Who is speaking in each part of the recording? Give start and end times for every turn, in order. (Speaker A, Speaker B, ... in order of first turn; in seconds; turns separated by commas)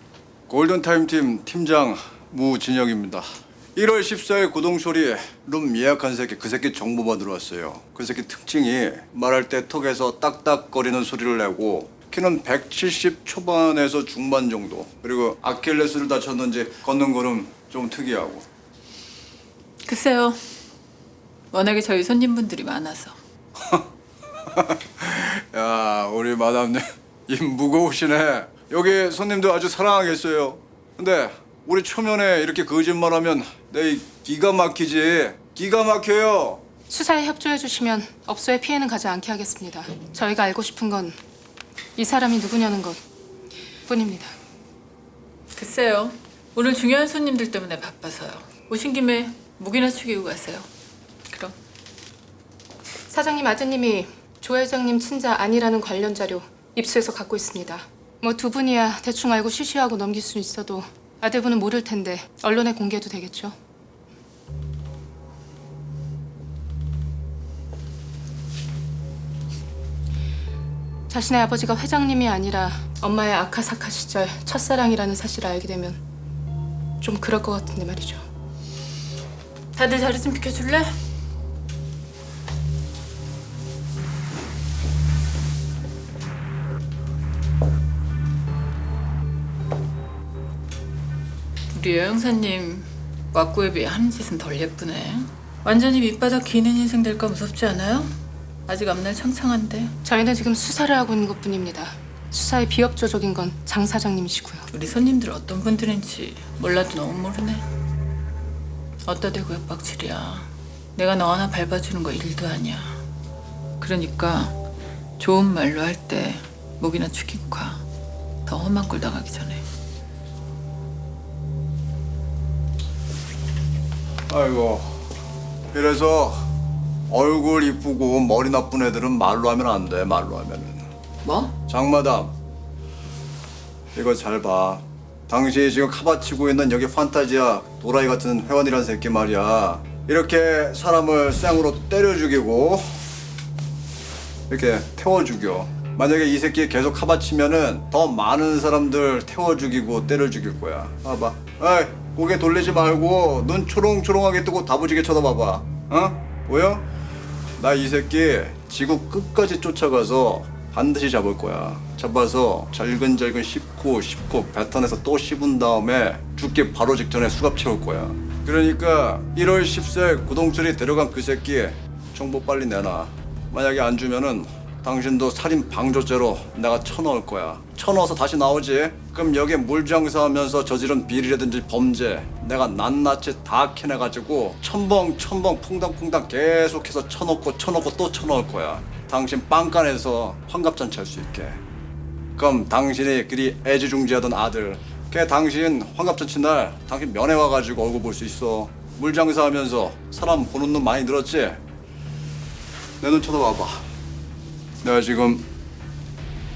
Speaker A: 0.5-18.4, Speaker B: 19.8-20.4, Speaker B: 21.5-23.2, Speaker A: 23.6-23.9, Speaker A: 24.4-36.7, Speaker C: 36.9-41.2, Speaker C: 42.0-43.0, Speaker C: 43.9-44.3, Speaker B: 45.5-50.7, Speaker B: 51.3-51.5, Speaker C: 53.1-63.5, Speaker C: 71.1-76.0, Speaker C: 77.0-78.2, Speaker B: 79.8-80.9, Speaker B: 91.7-98.1, Speaker B: 98.7-99.9, Speaker C: 100.0-104.7, Speaker B: 104.7-107.6, Speaker B: 109.0-113.0, Speaker B: 113.8-114.5, Speaker B: 115.2-117.8, Speaker B: 118.5-119.6, Speaker A: 124.3-125.0, Speaker A: 125.7-126.5, Speaker A: 127.1-130.8, Speaker B: 131.2-131.5, Speaker A: 131.6-132.3, Speaker A: 133.9-142.8, Speaker A: 144.5-156.8, Speaker A: 157.6-191.6, Speaker A: 192.3-201.6, Speaker A: 203.0-203.8, Speaker A: 204.8-205.4